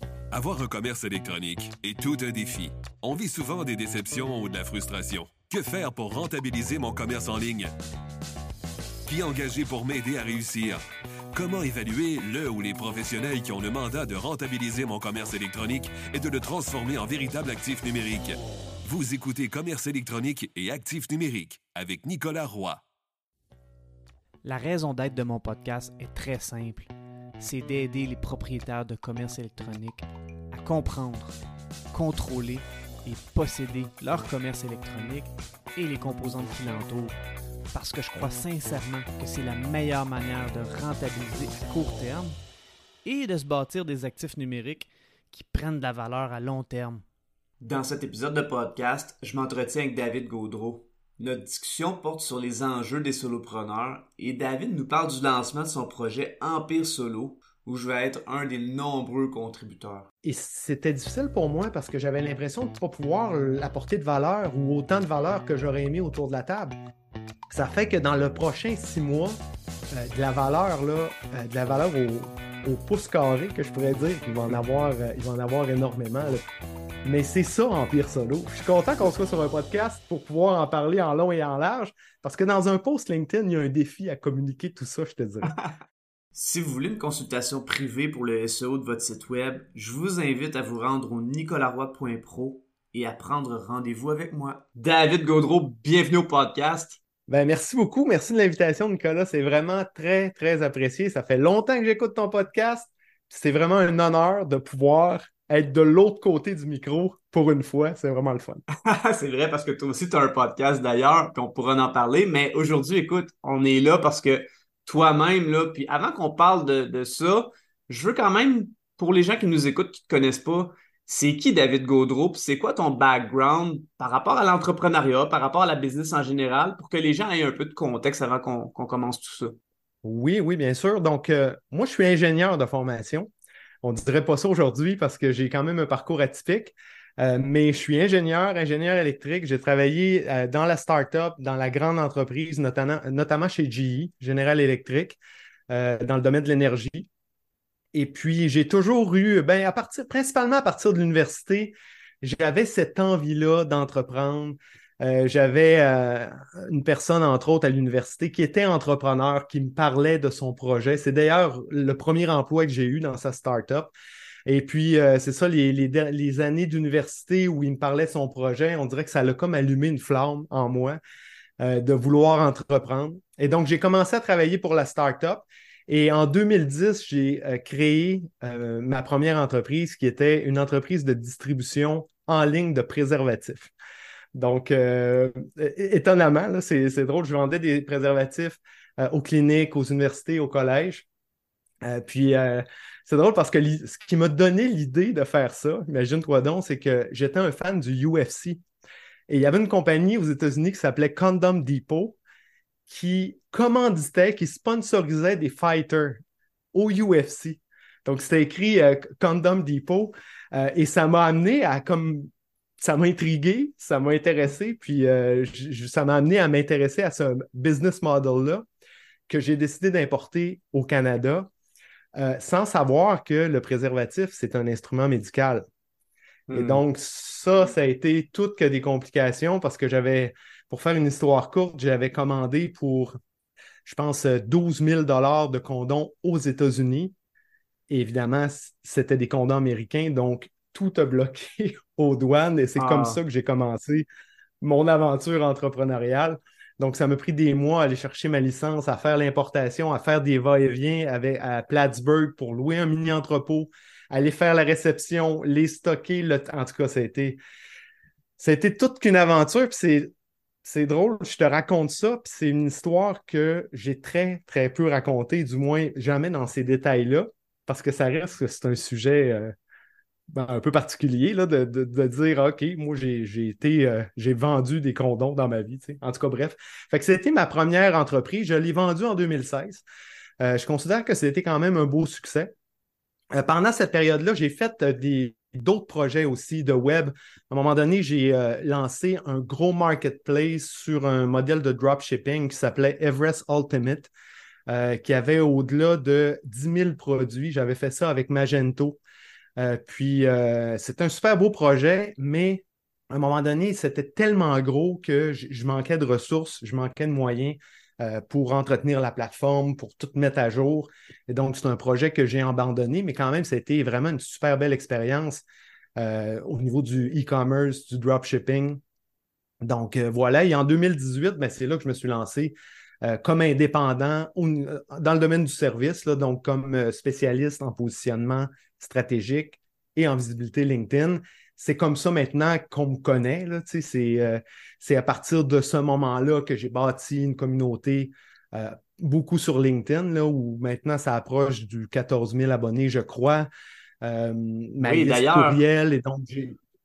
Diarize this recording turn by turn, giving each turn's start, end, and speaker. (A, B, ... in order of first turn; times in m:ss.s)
0:00.3-0:07.7 A
0:09.1-0:10.8 A
0:11.3-0:22.8 A
0:24.4-0:31.4 B
0:31.9-0:37.2 B
0:37.7-0:42.4 B
0:43.0-0:47.0 B
0:47.6-1:00.1 C
1:00.2-1:06.8 D
1:07.5-1:09.4 D
1:09.9-1:16.4 D
1:17.0-1:25.6 D
1:26.4-1:37.0 C
1:37.3-1:48.6 D
1:48.8-2:09.6 C
2:10.0-2:13.3 D
2:13.8-2:25.2 D
2:25.7-2:27.1 D
2:27.9-2:43.9 D
2:44.5-2:51.0 D
2:51.6-3:03.7 D
3:04.3-3:11.1 D
3:11.8-3:18.6 D
3:19.3-3:22.2 D
3:22.9-3:26.2 D
3:26.7-3:38.6 D
3:39.3-3:41.5 D
3:42.2-3:45.7 D
3:46.5-3:46.8 C
3:46.5-3:53.2 D
3:53.8-3:57.1 D
3:57.9-4:04.1 D
4:02.8-4:03.2 C
4:04.6-4:17.4 D
4:18.4-4:20.1 D
4:20.6-4:29.5 D
4:30.3-4:39.8 D
4:40.4-4:42.5 D
4:43.3-4:54.1 D
4:54.7-4:59.0 D
4:59.6-5:15.4 D
5:16.0-5:18.8 D
5:19.6-5:43.5 D
5:44.0-5:46.6 D
5:44.8-5:45.6 C